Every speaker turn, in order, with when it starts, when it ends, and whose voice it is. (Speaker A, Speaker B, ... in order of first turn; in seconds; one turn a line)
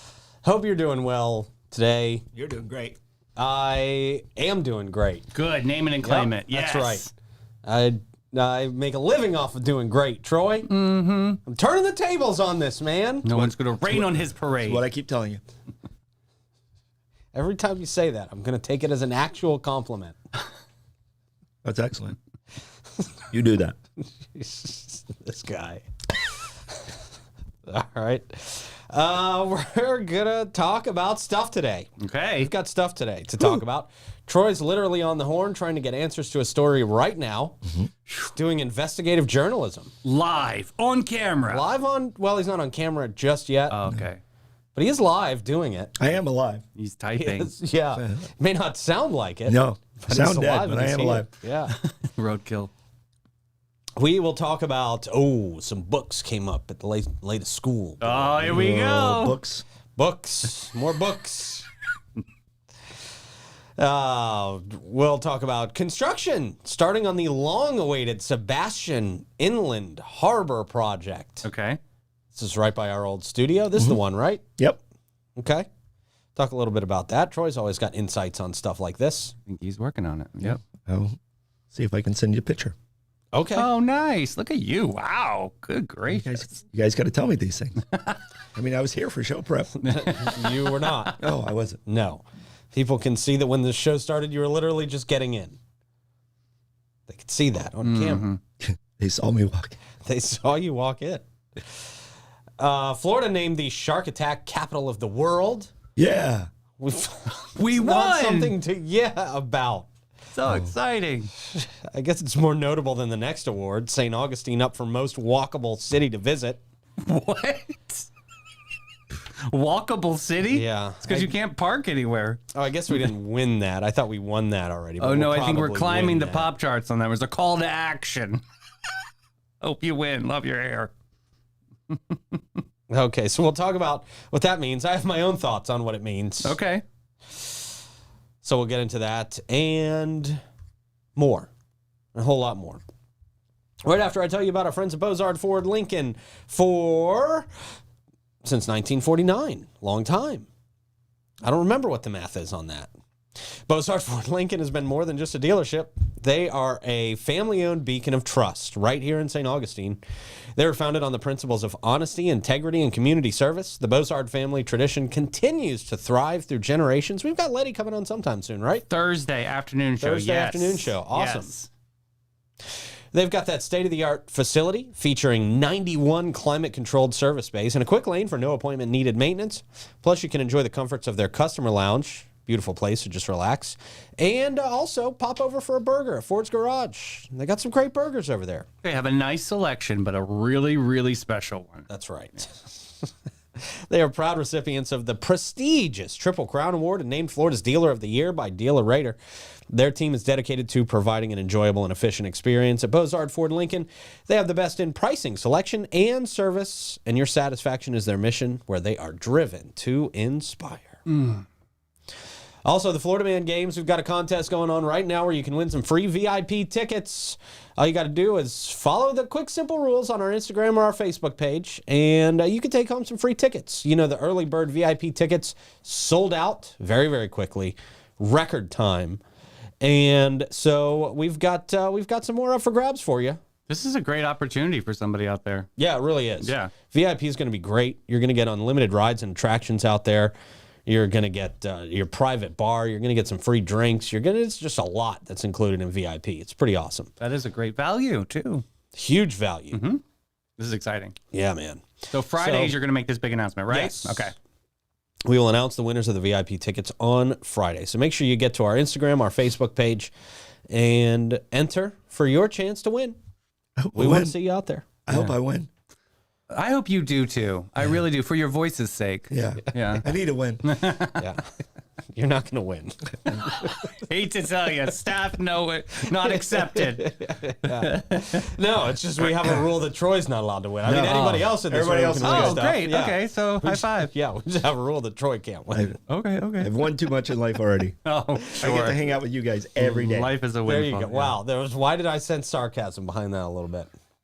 Speaker A: 0.4-2.2
Speaker B: 2.3-3.0
Speaker A: 3.4-5.3
Speaker C: 5.3-7.1
Speaker A: 6.0-7.1
Speaker A: 7.6-10.7
Speaker C: 10.7-11.4
Speaker A: 11.4-13.5
Speaker C: 13.2-14.8
Speaker B: 13.8-15.4
Speaker A: 17.3-20.2
Speaker B: 21.6-22.2
Speaker B: 23.3-23.8
Speaker A: 24.3-25.9
Speaker A: 27.6-37.6
Speaker C: 32.0-32.5
Speaker B: 37.6-37.9
Speaker A: 38.2-39.9
Speaker C: 40.0-41.6
Speaker A: 41.4-43.8
Speaker C: 43.7-44.2
Speaker A: 44.7-45.9
Speaker B: 46.0-46.6
Speaker C: 46.8-47.5
Speaker A: 47.2-51.7
Speaker B: 47.9-48.3
Speaker B: 49.5-51.3
Speaker C: 51.8-52.7
Speaker A: 54.0-58.6
Speaker C: 58.0-59.4
Speaker B: 58.4-59.6
Speaker A: 60.0-61.7
Speaker A: 63.8-71.5
Speaker C: 71.4-71.8
Speaker A: 72.3-74.4
Speaker A: 75.4-75.7
Speaker A: 76.3-79.3
Speaker C: 79.4-80.6
Speaker B: 80.9-81.2
Speaker B: 81.7-82.7
Speaker A: 83.3-83.7
Speaker C: 83.5-86.5
Speaker B: 86.1-87.8
Speaker C: 87.9-88.2
Speaker B: 88.5-89.7
Speaker C: 89.8-90.7
Speaker A: 89.8-91.2
Speaker B: 91.2-91.8
Speaker A: 91.8-95.6
Speaker A: 97.1-98.3
Speaker C: 97.8-98.4
Speaker B: 98.6-99.8
Speaker A: 100.0-101.7
Speaker A: 102.6-105.7
Speaker B: 106.0-106.5
Speaker A: 106.8-109.9
Speaker C: 107.4-108.5
Speaker C: 110.3-111.3
Speaker B: 110.4-110.7
Speaker A: 111.4-116.6
Speaker C: 117.0-118.1
Speaker C: 119.5-123.1
Speaker A: 120.4-121.3
Speaker A: 122.5-126.5
Speaker C: 125.0-128.4
Speaker C: 129.6-130.9
Speaker C: 131.9-132.4
Speaker A: 132.9-136.6
Speaker C: 136.4-136.8
Speaker A: 138.4-140.4
Speaker A: 141.2-141.5
Speaker A: 142.1-142.8
Speaker A: 143.8-147.5
Speaker A: 148.4-150.5
Speaker A: 151.4-152.9
Speaker A: 153.7-160.0
Speaker A: 160.6-168.8
Speaker C: 168.9-171.7
Speaker A: 170.0-171.5
Speaker A: 173.1-188.7
Speaker C: 188.8-191.9
Speaker A: 191.9-193.1
Speaker A: 193.6-199.2
Speaker A: 199.7-211.0
Speaker C: 211.1-211.4
Speaker A: 212.6-229.2
Speaker A: 229.8-233.4
Speaker C: 233.7-235.7
Speaker A: 235.8-240.3
Speaker C: 236.4-236.7
Speaker A: 240.9-247.1
Speaker C: 247.2-248.6
Speaker A: 248.9-249.8
Speaker C: 249.7-250.0
Speaker C: 250.6-251.1
Speaker A: 251.3-252.8
Speaker C: 252.1-254.3
Speaker A: 253.7-254.3
Speaker A: 255.2-260.1
Speaker A: 260.7-263.2
Speaker B: 263.8-264.3
Speaker A: 263.9-264.9
Speaker B: 265.1-265.7
Speaker C: 265.1-265.3
Speaker C: 266.5-270.1
Speaker B: 269.3-270.6
Speaker C: 270.6-271.2
Speaker A: 271.2-271.5
Speaker A: 272.1-273.7
Speaker C: 273.3-278.4
Speaker A: 276.2-285.9
Speaker B: 280.8-282.6
Speaker C: 282.2-284.1
Speaker C: 286.1-286.7
Speaker B: 286.6-288.0
Speaker C: 288.0-289.0
Speaker B: 288.5-290.3
Speaker C: 289.8-291.4
Speaker A: 290.6-293.9